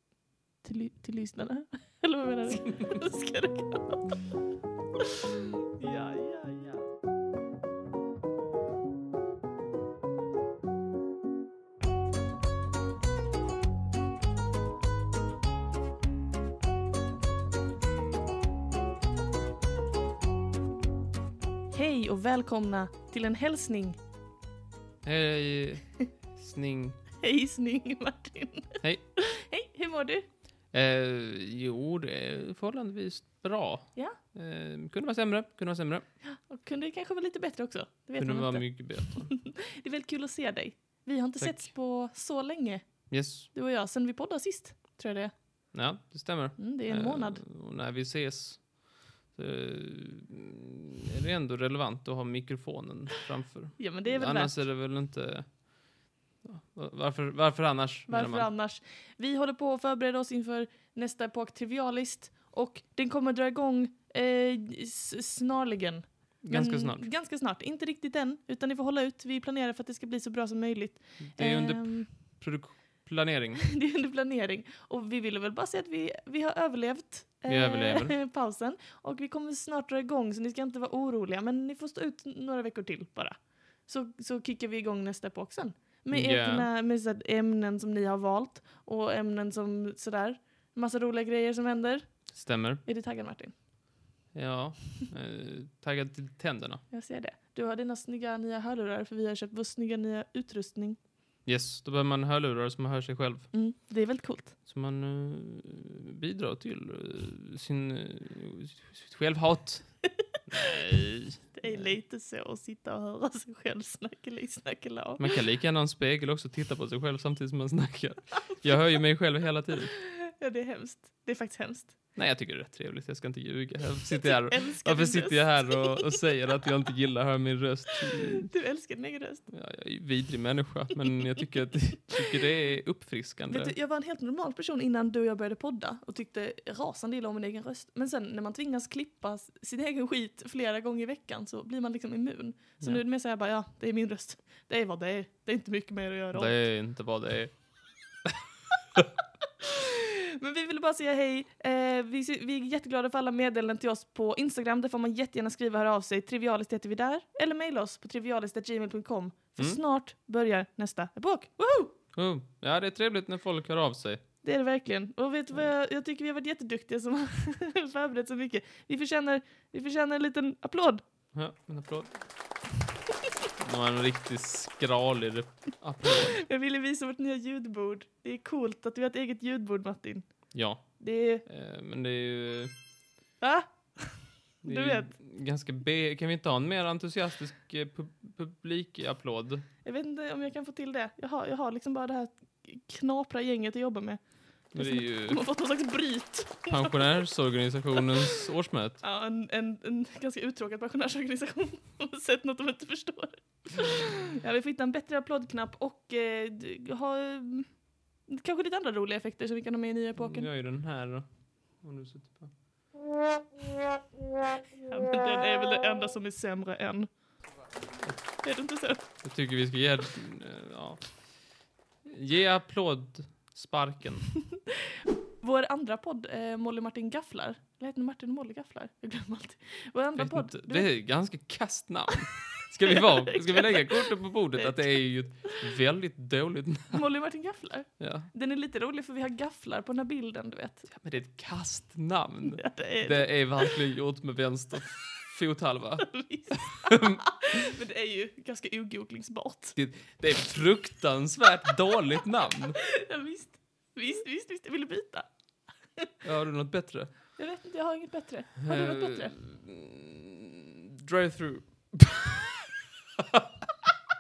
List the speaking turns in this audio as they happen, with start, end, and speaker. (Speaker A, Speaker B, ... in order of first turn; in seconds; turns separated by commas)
Speaker A: 0.6-4.3, Speaker A: 5.8-6.9, Speaker A: 21.7-24.0, Speaker B: 25.0-27.0, Speaker A: 27.2-30.3, Speaker B: 30.7-36.1, Speaker A: 36.2-45.7, Speaker B: 38.2-39.3, Speaker B: 41.4-41.7, Speaker B: 43.1-43.5, Speaker B: 45.7-58.5, Speaker A: 46.6-47.4, Speaker A: 53.8-54.7, Speaker A: 58.1-72.1, Speaker B: 66.4-67.1, Speaker B: 71.3-73.7, Speaker A: 73.7-94.0, Speaker B: 77.5-78.2, Speaker B: 86.1-86.7, Speaker B: 92.3-92.8, Speaker B: 94.3-96.8, Speaker A: 96.9-101.0, Speaker B: 101.5-103.6, Speaker A: 103.5-104.6, Speaker B: 104.7-111.9, Speaker A: 111.5-115.4, Speaker B: 115.2-119.9, Speaker A: 120.3-122.0, Speaker B: 122.2-128.5, Speaker A: 124.1-126.2, Speaker A: 128.4-129.5, Speaker B: 129.5-133.8, Speaker A: 133.5-146.7, Speaker B: 146.3-148.3, Speaker A: 150.4-161.9, Speaker B: 162.1-164.2, Speaker A: 164.4-171.0, Speaker B: 171.3-172.2, Speaker B: 173.6-176.4, Speaker A: 176.4-181.5, Speaker B: 180.5-182.8, Speaker A: 183.4-185.2, Speaker B: 184.6-189.6, Speaker A: 189.8-197.2, Speaker B: 194.7-195.5, Speaker B: 196.7-199.0, Speaker A: 199.0-210.5, Speaker B: 210.2-212.6, Speaker A: 214.8-217.3, Speaker B: 218.0-224.4, Speaker A: 218.4-219.5, Speaker A: 225.4-231.4, Speaker B: 230.2-237.1, Speaker A: 233.3-235.6, Speaker A: 236.9-240.9, Speaker B: 238.0-238.3, Speaker B: 240.9-247.2, Speaker A: 242.4-243.8, Speaker A: 246.0-249.8, Speaker B: 249.8-252.8, Speaker A: 253.0-255.4, Speaker B: 256.2-257.1, Speaker A: 257.4-259.4, Speaker B: 258.6-262.6